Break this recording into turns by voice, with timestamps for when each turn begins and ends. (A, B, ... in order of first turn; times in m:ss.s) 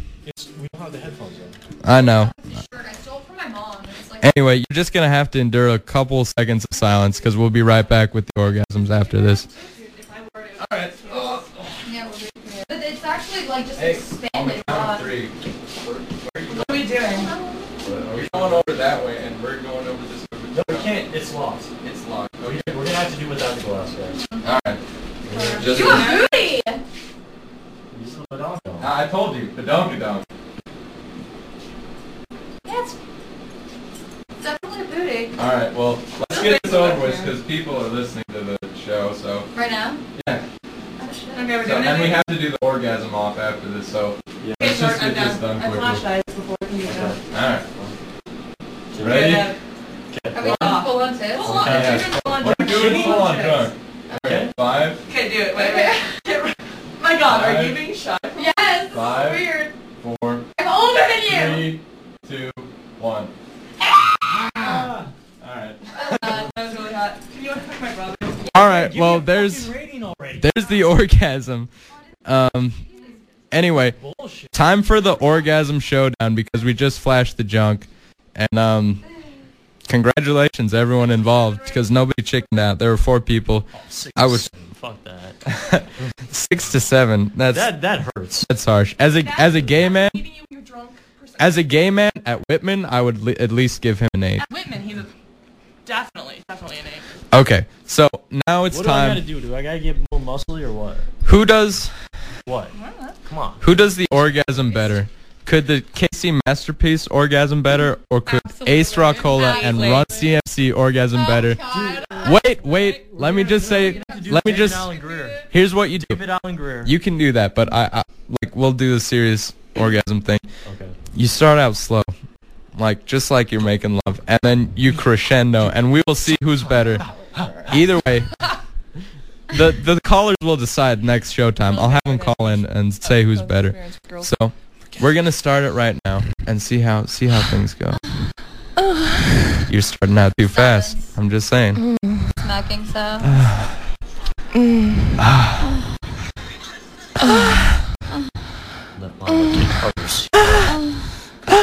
0:00.2-0:01.6 A
0:01.8-0:02.3 B
0:01.9-0:04.3 C
0:04.2-0:09.5 B
0:06.7-0:07.8 C
0:08.8-0:11.5 D
0:10.6-0:11.9 B
0:11.8-0:15.2 C
0:12.4-0:12.7 D
0:13.8-0:16.9 B
0:16.5-0:17.3 D
0:17.0-0:17.8 C
0:17.8-0:18.8 A
0:18.1-0:21.0 B
0:20.5-0:21.7 A
0:21.8-0:22.8 B
0:22.4-0:24.2 A
0:24.4-0:24.8 B
0:25.2-0:25.8 A
0:25.3-0:26.8 C
0:25.5-0:26.2 B
0:25.6-0:26.3 D
0:27.9-0:28.9 A
0:28.8-0:30.2 B
0:32.6-0:33.0 C
0:34.4-0:35.4 C
0:35.4-0:39.5 B
0:36.3-0:37.4 D
0:39.5-0:40.0 C
0:40.2-0:40.4 B
0:41.0-0:41.6 C
0:41.3-0:42.2 D
0:41.6-0:46.0 B
0:44.4-0:44.8 A
0:44.6-0:47.2 D
0:46.8-0:47.2 A
0:47.3-0:47.7 B
0:48.9-0:49.4 A
0:49.0-0:49.5 B
0:49.0-0:49.6 D
0:50.1-0:50.8 A
0:50.3-0:51.5 C
0:50.4-0:53.7 D
0:51.4-0:53.3 A
0:51.6-0:55.0 B
0:54.2-0:54.5 A
0:55.0-0:58.6 D
0:55.5-0:56.2 C
0:57.3-0:57.8 B
0:58.4-0:59.7 C
0:58.9-1:00.5 B
1:00.6-1:01.7 C
1:01.2-1:03.3 B
1:04.4-1:04.8 B
1:04.6-1:05.1 A
1:04.6-1:04.9 C
1:05.4-1:06.4 B
1:05.9-1:06.5 C
1:06.4-1:08.4 D
1:08.5-1:09.7 B
1:08.5-1:10.5 A
1:10.4-1:11.7 B
1:10.5-1:11.0 C
1:11.9-1:13.5 C
1:12.2-1:12.8 B
1:13.5-1:14.0 B
1:13.9-1:14.6 A
1:14.5-1:19.1 B
1:15.0-1:15.5 C
1:19.9-1:24.5 B
1:21.0-1:21.9 C
1:23.7-1:25.4 A
1:25.4-1:27.7 B
1:27.5-1:28.5 A
1:28.4-1:30.2 B
1:29.2-1:31.8 D
1:31.4-1:34.5 B
1:34.4-1:35.1 D
1:35.8-1:37.0 D
1:37.3-1:39.2 B
1:38.7-1:41.1 A
1:41.2-1:42.0 B
1:42.5-1:42.7 A
1:42.7-1:43.2 D
1:43.2-1:43.8 A
1:43.6-1:51.6 B
1:44.6-1:45.0 C
1:48.3-1:50.1 C
1:48.7-1:50.3 D
1:51.1-1:52.5 C
1:51.7-1:56.9 A
1:51.9-1:52.3 D
1:52.2-1:54.9 B
1:53.8-1:54.3 C
1:54.9-1:55.4 D
1:55.5-1:56.2 B
1:56.8-2:00.4 B
2:00.6-2:01.0 A
2:01.1-2:02.1 B
2:02.8-2:08.4 B
2:06.9-2:07.3 C
2:07.0-2:07.8 A
2:09.5-2:18.0 B
2:11.6-2:14.3 D
2:18.9-2:19.3 D
2:19.6-2:21.9 B
2:20.4-2:21.1 C
2:21.8-2:22.4 D
2:22.4-2:23.4 C
2:23.4-2:23.8 B
2:24.5-2:25.1 D
2:25.2-2:25.6 B
2:29.0-2:30.4 A
2:30.5-2:30.8 B